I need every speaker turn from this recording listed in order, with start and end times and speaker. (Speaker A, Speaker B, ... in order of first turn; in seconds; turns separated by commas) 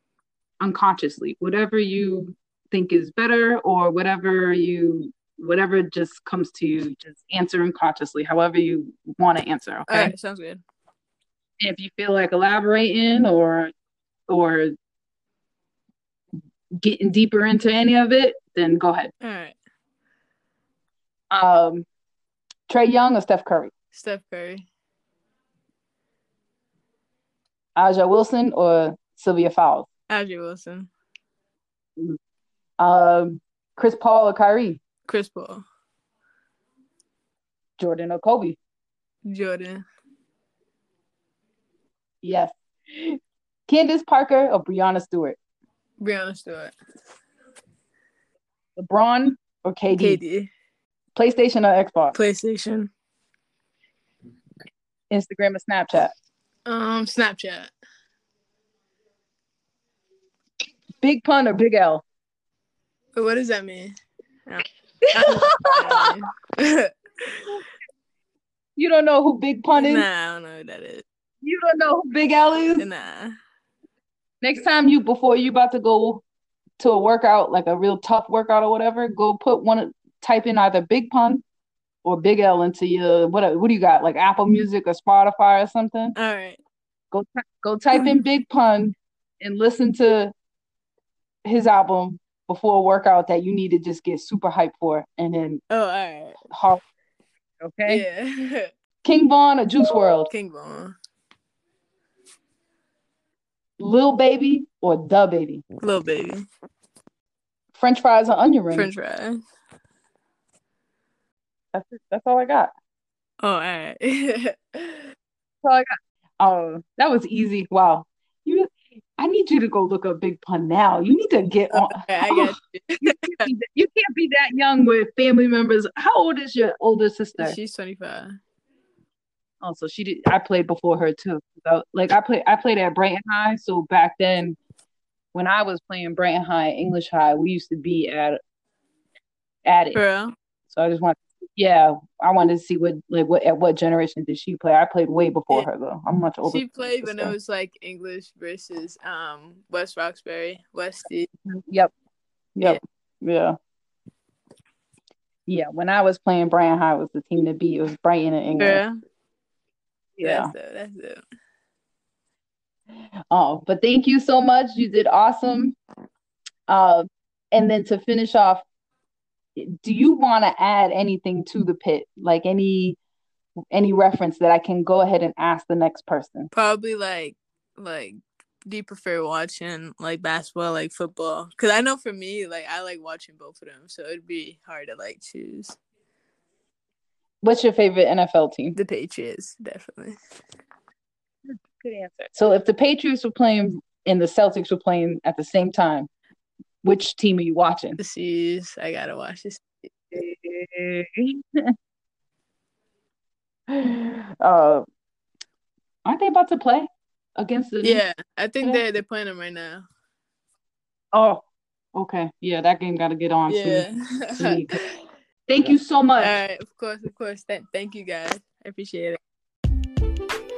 Speaker A: 0.6-10.1, Speaker B: 9.9-10.6, Speaker A: 11.6-13.7, Speaker A: 14.3-14.7, Speaker A: 16.8-19.1, Speaker B: 19.2-19.6, Speaker A: 21.3-21.9, Speaker A: 22.7-23.7, Speaker B: 23.9-24.6, Speaker A: 27.8-29.9, Speaker B: 30.1-30.9, Speaker A: 32.8-34.8, Speaker B: 35.1-35.6, Speaker A: 37.8-38.6, Speaker B: 39.2-39.8, Speaker A: 42.2-45.4, Speaker B: 46.0-46.7, Speaker A: 48.8-50.2, Speaker B: 49.9-50.5, Speaker A: 51.1-52.1, Speaker B: 52.1-52.9, Speaker A: 55.1-56.1, Speaker B: 56.6-57.7, Speaker A: 61.0-62.0, Speaker B: 63.1-63.9, Speaker B: 64.5-67.6, Speaker A: 65.2-65.8, Speaker A: 68.8-70.0, Speaker B: 69.7-71.0, Speaker A: 71.4-72.9, Speaker B: 72.7-73.3, Speaker A: 74.4-76.2, Speaker A: 76.8-81.4, Speaker A: 82.0-86.1, Speaker B: 86.2-86.6, Speaker A: 87.1-90.3, Speaker A: 91.4-95.6, Speaker B: 95.7-96.3, Speaker A: 96.5-96.8, Speaker A: 97.6-98.0, Speaker B: 97.8-98.7, Speaker A: 99.0-100.3, Speaker B: 100.2-101.0, Speaker A: 103.8-105.6, Speaker B: 105.8-106.4, Speaker A: 107.7-108.9, Speaker B: 108.7-109.4, Speaker A: 111.7-112.7, Speaker B: 113.4-115.1, Speaker A: 115.6-115.9, Speaker A: 116.4-127.6, Speaker B: 121.7-123.5, Speaker B: 127.4-128.4, Speaker A: 129.6-134.6, Speaker A: 135.3-138.4, Speaker A: 139.6-140.0, Speaker B: 139.9-140.3, Speaker A: 140.7-147.3, Speaker B: 146.4-151.3, Speaker A: 151.5-151.9, Speaker A: 152.6-153.6, Speaker A: 155.5-158.8, Speaker B: 158.6-158.9, Speaker A: 160.2-160.5, Speaker B: 160.2-161.2, Speaker A: 163.3-165.8, Speaker A: 166.7-168.6, Speaker A: 169.6-173.0, Speaker A: 173.7-176.5, Speaker B: 176.5-185.8, Speaker A: 187.4-188.8, Speaker B: 188.7-190.2, Speaker A: 191.5-196.1, Speaker A: 196.8-197.9, Speaker B: 198.0-199.9, Speaker A: 200.1-201.7, Speaker A: 203.7-204.8, Speaker A: 206.0-208.0, Speaker B: 207.8-209.9, Speaker A: 211.1-211.4, Speaker A: 211.9-214.7, Speaker B: 213.5-215.1, Speaker A: 215.5-216.4, Speaker B: 216.2-219.2